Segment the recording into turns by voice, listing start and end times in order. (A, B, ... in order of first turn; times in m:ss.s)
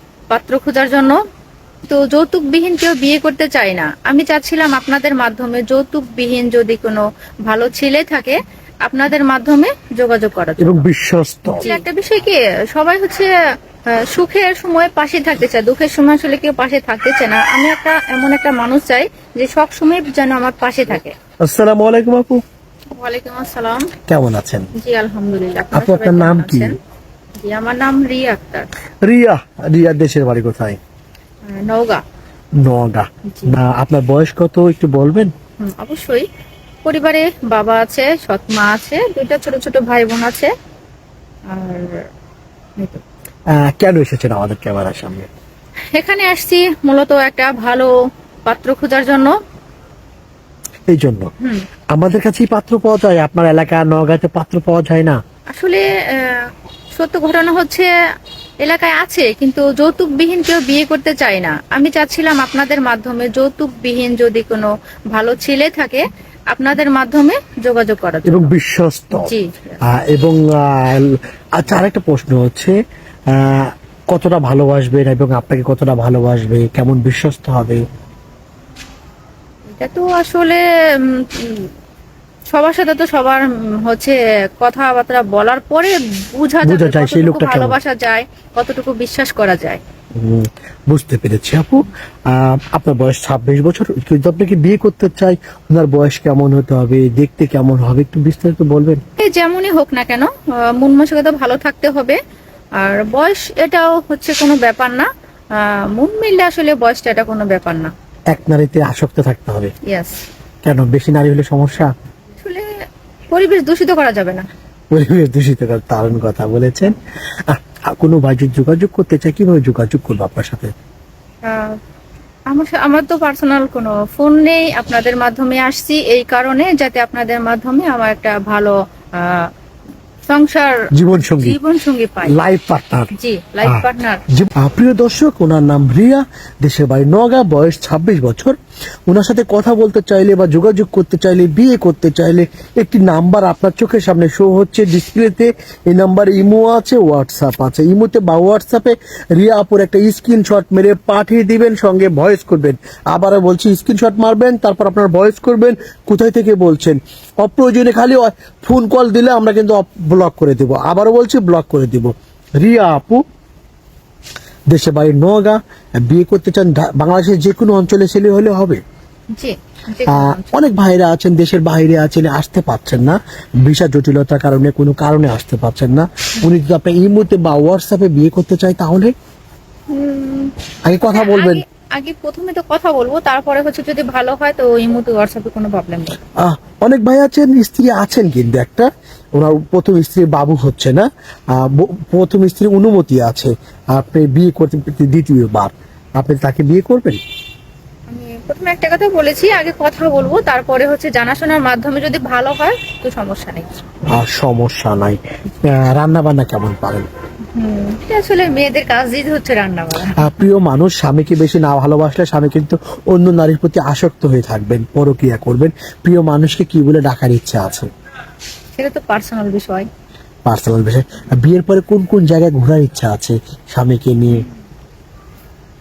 0:00.3-0:01.2 A
0:01.9-0:10.9 A
0:10.6-0:11.8 B
0:11.6-0:13.3 A
0:13.9-0:21.1 A
0:21.4-0:22.4 B
0:22.9-0:23.9 A
0:24.1-0:24.7 B
0:24.8-0:26.8 A
0:25.7-0:26.7 B
0:27.4-0:28.7 A
0:29.0-0:30.8 B
0:31.4-0:32.0 A
0:32.6-0:35.3 B
0:33.3-0:33.6 A
0:35.6-0:36.3 A
0:36.8-0:40.5 A
0:41.5-0:42.0 A
0:42.8-0:43.0 A
0:43.5-0:45.3 B
0:45.9-0:47.9 A
0:48.4-0:49.4 A
0:50.9-0:51.3 B
0:51.9-0:55.2 B
0:55.5-0:57.9 A
0:58.6-1:08.5 A
1:08.2-1:09.3 B
1:09.2-1:09.8 A
1:09.8-1:12.8 B
1:13.3-1:17.8 B
1:19.7-1:21.7 A
1:22.5-1:29.8 A
1:26.6-1:27.8 B
1:30.1-1:39.0 B
1:39.2-1:42.2 A
1:42.8-1:47.9 A
1:48.3-1:49.7 B
1:49.8-1:50.2 A
1:50.6-1:51.9 B
1:52.4-1:52.7 A
1:53.3-1:54.5 A
1:54.9-2:00.7 B
2:01.4-2:01.8 A
2:02.5-2:09.5 A
2:10.3-2:12.4 A
2:10.9-2:11.6 B
2:12.2-2:13.1 B
2:13.1-2:14.2 A
2:13.6-2:18.6 B
2:19.1-2:43.2 B
2:44.7-2:48.8 B
2:49.3-2:50.6 A
2:50.1-2:59.1 B
2:59.9-3:00.5 A
3:00.8-3:01.6 B
3:01.1-3:06.2 A
3:06.4-3:17.2 B
3:18.1-3:23.7 A
3:24.1-3:27.1 B
3:27.5-3:30.3 A
3:30.1-3:37.9 B
3:38.7-3:39.8 A
3:40.4-3:44.4 B